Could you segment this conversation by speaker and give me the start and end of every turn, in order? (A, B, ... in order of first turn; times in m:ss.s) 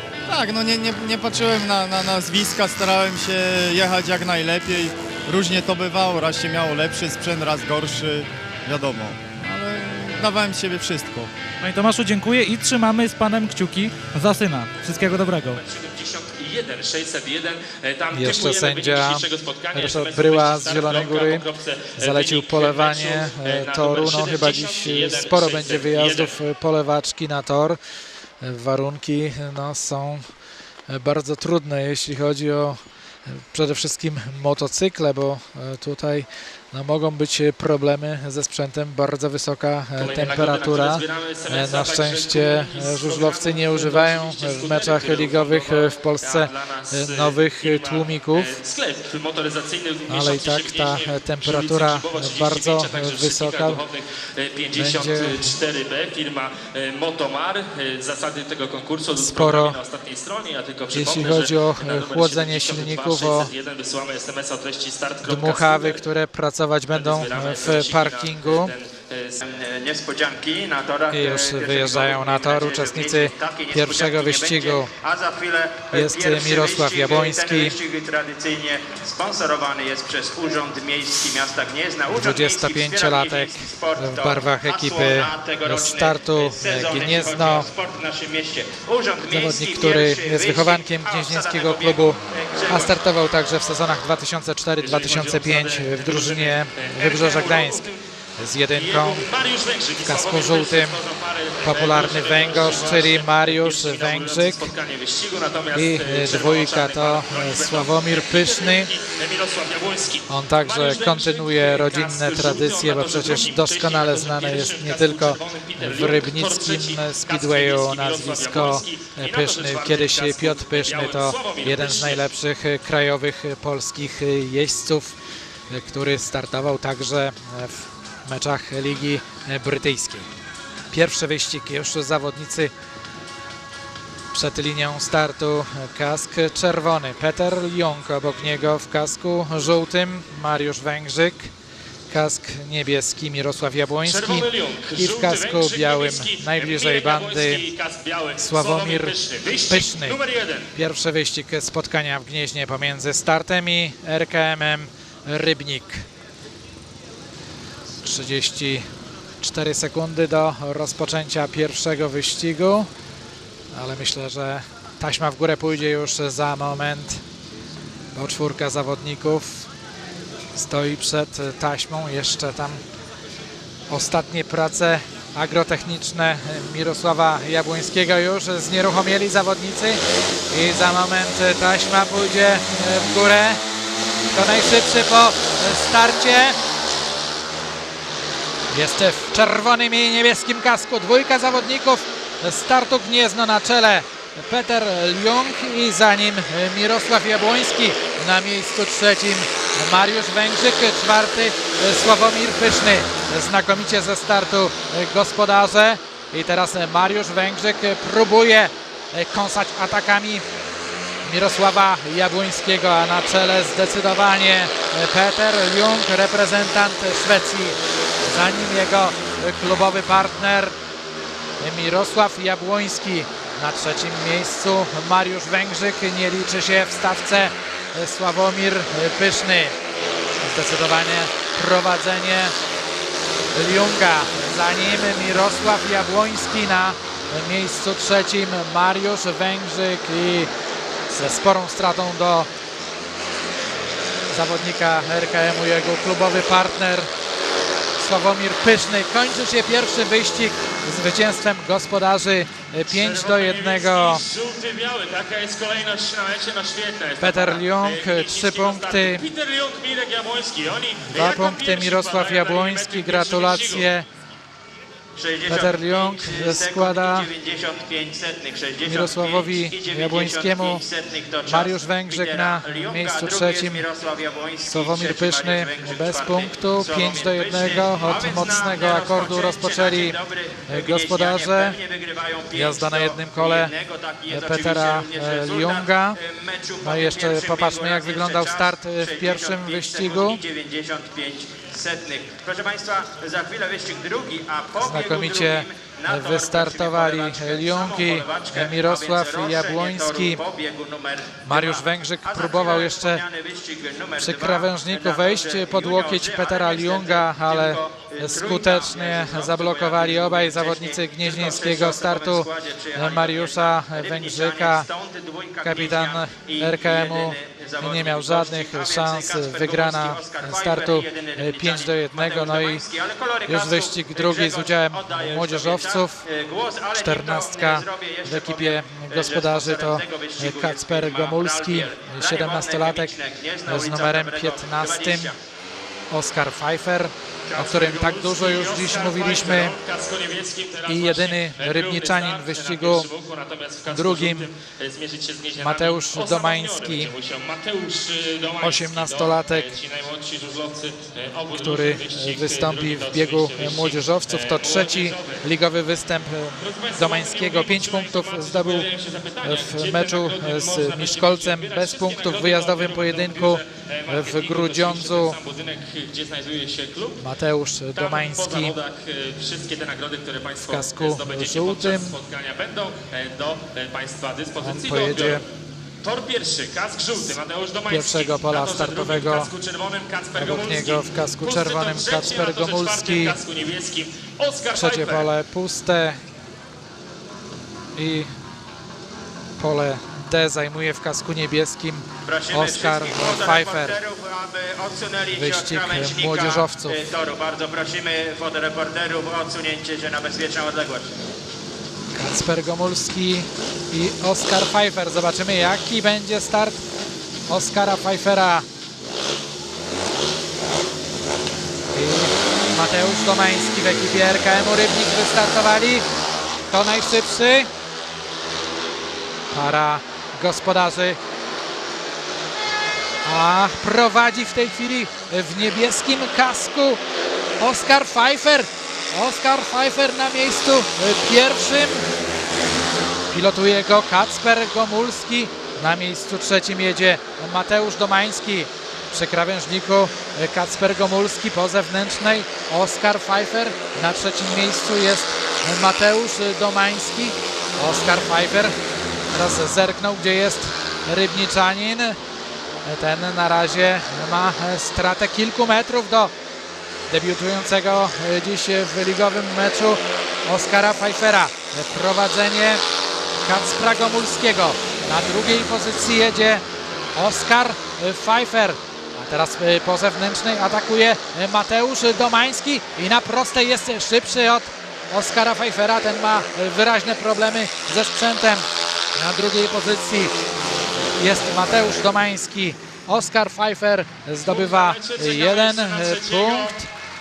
0:00.3-0:11.3 A
0:11.6-0:15.6 B
0:15.5-0:26.3 C
0:18.1-0:21.4 D
0:22.0-0:27.8 D
0:28.4-0:30.2 D
0:30.9-0:48.5 D
0:40.0-1:06.0 C
0:50.1-0:53.8 D
0:54.7-0:55.5 D
0:59.1-0:59.8 D
1:00.9-1:03.5 D
1:05.2-1:08.7 D
1:06.9-1:09.4 C
1:09.4-1:33.0 E
1:11.1-1:14.9 D
1:15.9-1:17.8 D
1:22.1-1:27.7 D
1:29.3-1:39.3 D
1:34.8-1:38.0 C
1:38.7-2:02.3 C
1:40.0-1:41.0 D
1:41.6-1:44.7 D
1:45.7-1:48.9 D
1:50.3-2:05.1 D
2:05.7-2:10.2 D
2:10.9-2:12.7 D
2:14.3-2:21.5 D
2:22.1-2:27.6 D
2:24.0-2:30.7 C
2:28.4-2:29.2 D
2:29.7-2:30.2 D
2:30.7-2:36.0 D
2:38.0-2:38.8 D
2:39.4-2:42.9 D
2:43.7-2:47.2 D
2:48.1-2:49.7 D
2:50.5-2:52.8 D
2:53.9-3:03.6 D
3:04.3-3:06.6 D
3:08.7-3:30.4 D
3:31.2-3:40.7 D
3:41.6-3:49.8 D
3:50.4-3:52.5 D
3:53.5-4:00.5 D
4:01.1-4:02.5 D
4:04.3-4:07.1 D
4:08.0-4:14.2 D
4:12.9-4:23.9 C
4:17.2-4:19.2 D
4:21.1-4:24.0 D
4:25.2-5:35.4 E
4:25.5-4:27.3 D
4:28.8-4:30.8 D
4:31.4-4:33.8 D
4:34.6-4:40.2 D
4:40.7-4:41.8 D
4:42.5-4:43.7 D
4:44.3-4:46.2 D
4:46.8-4:50.4 D
4:54.8-5:00.4 D
5:01.4-5:03.2 D
5:04.2-5:14.9 D
5:15.6-5:22.8 D
5:23.5-5:26.2 D
5:26.9-5:35.3 D
5:36.1-5:39.8 D
5:37.5-5:55.4 C
5:40.8-5:43.1 D
5:43.9-5:44.5 D
5:45.6-5:47.1 D
5:48.6-5:49.7 D
5:51.5-5:58.9 D
5:56.6-6:07.2 C
5:59.4-6:05.4 D
6:07.2-6:08.7 D
6:07.9-6:15.4 C
6:10.6-6:12.2 D
6:14.6-6:15.4 D
6:16.0-6:25.3 C
6:17.9-6:19.5 D
6:20.3-6:23.4 D
6:24.7-6:26.2 D
6:28.0-6:28.3 D
6:29.6-6:34.0 D
6:32.2-6:41.2 E
6:35.3-6:37.0 D
6:42.1-6:46.8 D
6:47.5-6:48.6 D
6:51.9-6:56.0 D
6:56.7-6:57.7 D
6:59.5-7:01.2 D
7:03.2-7:07.0 D
7:07.6-7:12.0 D
7:13.3-7:28.7 D
7:29.3-7:32.2 D
7:32.8-7:36.3 D
7:37.1-7:42.8 D
7:43.4-7:46.6 D
7:47.2-8:00.3 D
8:01.2-8:06.9 D
8:04.5-8:06.8 C